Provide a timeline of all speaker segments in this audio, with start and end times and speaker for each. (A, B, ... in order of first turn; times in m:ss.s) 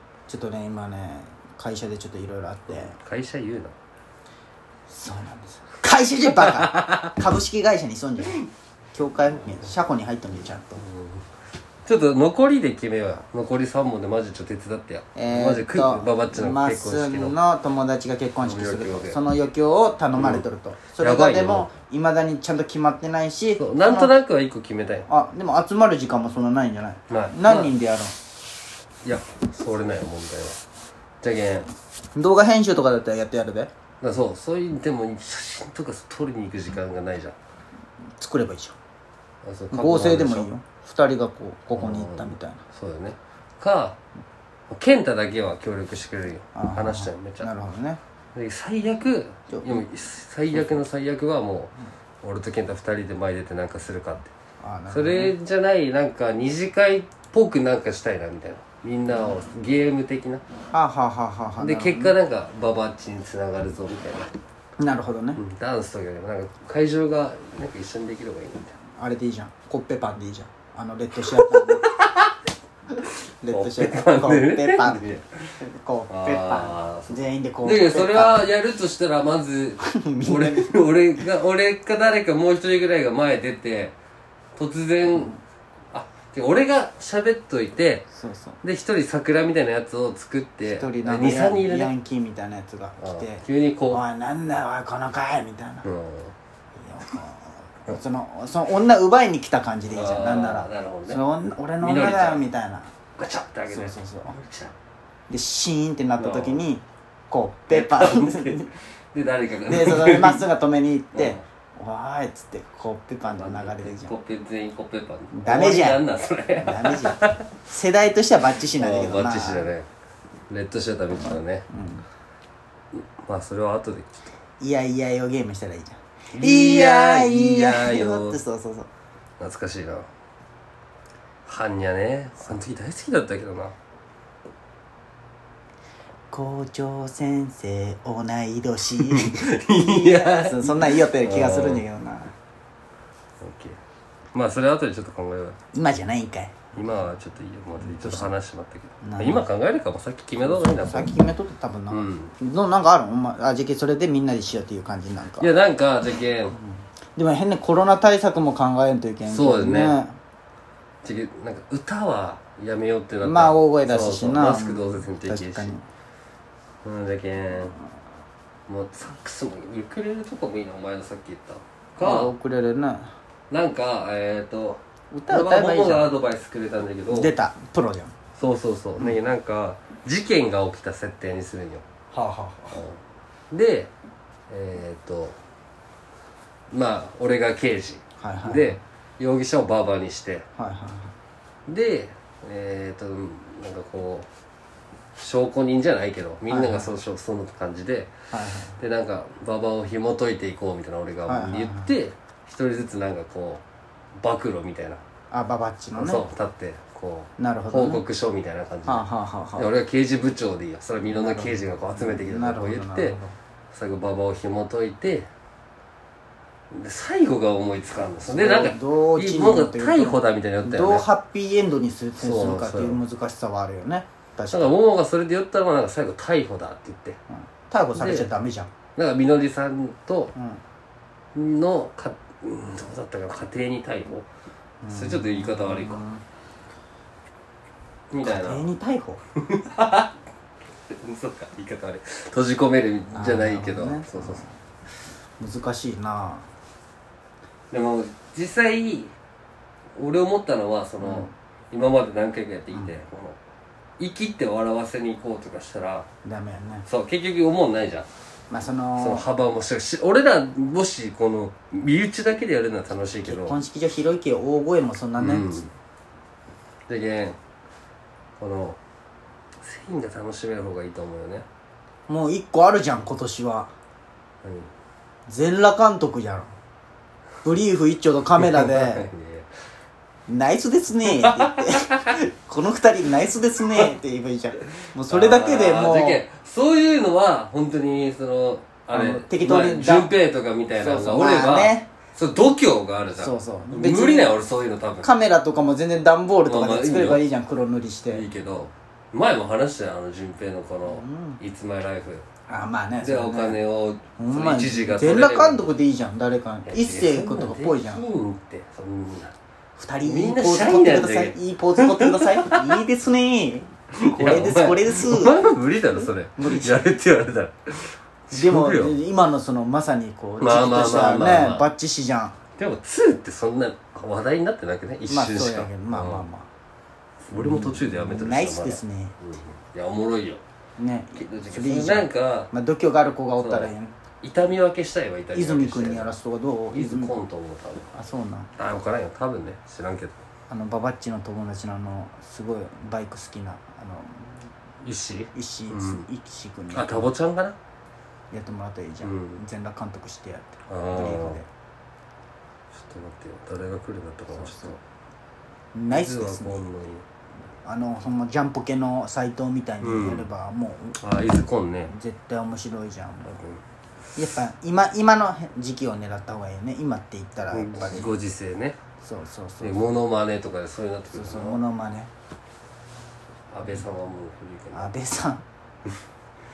0:00.3-0:02.9 A
0:02.7-0:03.7 B
0:04.9-0:10.8 A
0:06.2-0:07.2 B
0:09.3-0:09.7 B
0:10.8-0:11.2 B
0:11.8-0:17.4 B
0:15.1-0:24.1 A
0:18.4-0:19.2 B
0:20.2-0:21.7 B
0:23.6-0:25.1 B
0:25.1-0:28.1 A
0:27.1-0:27.8 B
0:29.0-0:30.6 B
0:31.2-0:31.7 B
0:32.1-0:33.7 A
0:34.0-0:37.4 B
0:38.2-0:38.8 A
0:39.4-0:40.5 B
0:39.7-0:42.6 A
0:41.7-0:44.0 B
0:44.7-0:47.5 B
0:46.5-0:48.0 A
0:48.3-0:54.3 B
0:49.5-0:49.8 A
0:54.6-0:55.3 A
0:54.9-1:00.4 B
1:00.7-1:02.2 A
1:01.6-1:04.3 B
1:04.8-1:05.4 A
1:05.4-1:08.8 B
1:08.9-1:11.9 A
1:11.2-1:12.4 B
1:13.0-1:15.6 B
1:13.4-1:18.5 A
1:16.1-1:23.9 B
1:19.8-1:20.8 A
1:24.6-1:25.4 B
1:25.9-1:28.1 B
1:28.1-1:28.6 A
1:28.6-1:31.9 B
1:30.7-1:35.9 A
1:33.0-1:34.0 B
1:35.8-1:36.3 B
1:36.8-1:43.0 A
1:39.9-1:42.5 B
1:43.1-1:44.7 B
1:43.7-1:44.3 A
1:45.3-1:48.7 A
1:46.2-1:46.6 B
1:47.7-1:50.5 B
1:49.7-1:54.2 A
1:51.1-1:51.4 B
1:53.2-1:57.6 B
1:55.3-1:56.0 A
1:56.6-1:59.7 A
1:58.6-1:59.9 B
2:00.5-2:01.7 B
2:01.1-2:02.0 A
2:02.9-2:04.1 B
2:04.6-2:08.9 A
2:06.3-2:08.4 B
2:09.4-2:10.1 B
2:11.5-2:13.7 B
2:16.3-2:22.3 A
2:18.9-2:21.8 B
2:23.4-2:23.8 B
2:24.3-2:25.6 B
2:25.7-2:26.8 A
2:26.7-2:31.3 B
2:27.8-2:28.3 A
2:29.0-2:29.5 A
2:30.5-2:35.5 A
2:31.9-2:32.4 B
2:35.4-2:36.6 B
2:36.6-2:40.2 A
2:39.3-2:40.0 B
2:41.0-2:45.7 B
2:43.2-2:45.8 A
2:46.8-2:47.8 B
2:48.7-2:52.3 B
2:52.0-2:53.1 A
2:53.5-2:57.3 B
2:55.1-2:56.1 A
2:57.1-2:58.2 A
2:58.3-3:01.8 B
3:02.1-3:02.8 A
3:02.7-3:03.0 B
3:03.5-3:03.9 B
3:04.5-3:05.4 B
3:06.7-3:10.5 B
3:08.2-3:08.8 A
3:10.6-3:11.2 A
3:11.7-3:14.3 B
3:15.2-3:23.6 B
3:16.5-3:16.9 A
3:18.3-3:18.8 A
3:21.2-3:21.9 A
3:24.2-3:25.0 B
3:25.3-3:26.2 A
3:26.0-3:33.2 B
3:27.4-3:28.0 A
3:28.8-3:29.7 A
3:31.1-3:33.3 A
3:33.7-3:35.3 B
3:36.7-3:41.1 B
3:38.3-3:44.8 A
3:42.1-3:43.0 B
3:44.5-3:47.2 B
3:47.4-3:48.7 A
3:47.9-3:48.4 B
3:48.9-3:50.3 B
3:50.3-3:50.6 A
3:51.3-3:54.3 B
3:54.8-3:56.2 A
3:54.9-3:56.0 B
3:58.1-3:58.7 B
3:58.2-3:59.2 A
3:59.3-4:00.1 B
4:00.9-4:04.4 B
4:03.1-4:04.5 A
4:05.4-4:06.5 A
4:07.7-4:09.1 B
4:10.0-4:13.4 B
4:11.0-4:11.3 A
4:14.0-4:16.1 B
4:16.2-4:16.9 A
4:16.9-4:18.1 B
4:18.5-4:19.3 A
4:19.0-4:23.6 B
4:23.2-4:25.6 A
4:25.2-4:25.7 B
4:26.9-4:27.4 B
4:28.4-4:28.8 B
4:29.6-4:31.5 B
4:32.1-4:33.7 A
4:34.4-4:34.7 B
4:35.3-4:36.5 A
4:37.4-4:39.1 A
4:38.4-4:39.5 B
4:40.3-4:46.2 A
4:41.0-4:42.2 B
4:44.7-4:55.1 B
4:48.9-4:50.1 A
4:50.8-4:51.9 A
4:53.2-4:54.4 A
4:55.0-4:58.3 A
4:56.4-4:57.2 B
4:58.1-5:02.3 B
5:00.9-5:01.4 A
5:02.5-5:03.6 A
5:03.0-5:05.7 B
5:04.2-5:08.0 A
5:06.6-5:09.4 B
5:09.8-5:15.4 A
5:10.0-5:12.8 B
5:13.9-5:19.0 B
5:16.0-5:17.0 A
5:18.3-5:22.4 A
5:20.4-5:21.7 B
5:22.5-5:26.3 B
5:25.1-5:26.5 A
5:27.3-5:30.4 B
5:27.3-5:29.2 A
5:30.8-5:34.0 A
5:31.2-5:32.5 B
5:33.4-5:36.1 B
5:35.3-5:37.2 A
5:36.7-5:38.0 B
5:38.0-5:38.5 A
5:38.6-5:40.2 B
5:40.5-5:44.5 A
5:44.8-5:46.1 B
5:45.3-5:47.1 A
5:46.7-5:47.6 B
5:48.3-5:51.5 A
5:49.0-5:49.4 B
5:50.7-5:51.4 B
5:52.7-5:54.8 B
5:54.3-5:54.8 A
5:55.7-5:56.7 A
5:55.9-5:57.0 B
5:57.6-6:01.0 A
5:59.8-6:00.3 B
6:01.0-6:02.0 B
6:01.9-6:03.4 A
6:04.2-6:08.2 A
6:07.5-6:08.8 B
6:09.0-6:09.9 A
6:09.6-6:11.6 B
6:11.1-6:12.1 A
6:13.5-6:14.9 B
6:14.7-6:15.4 A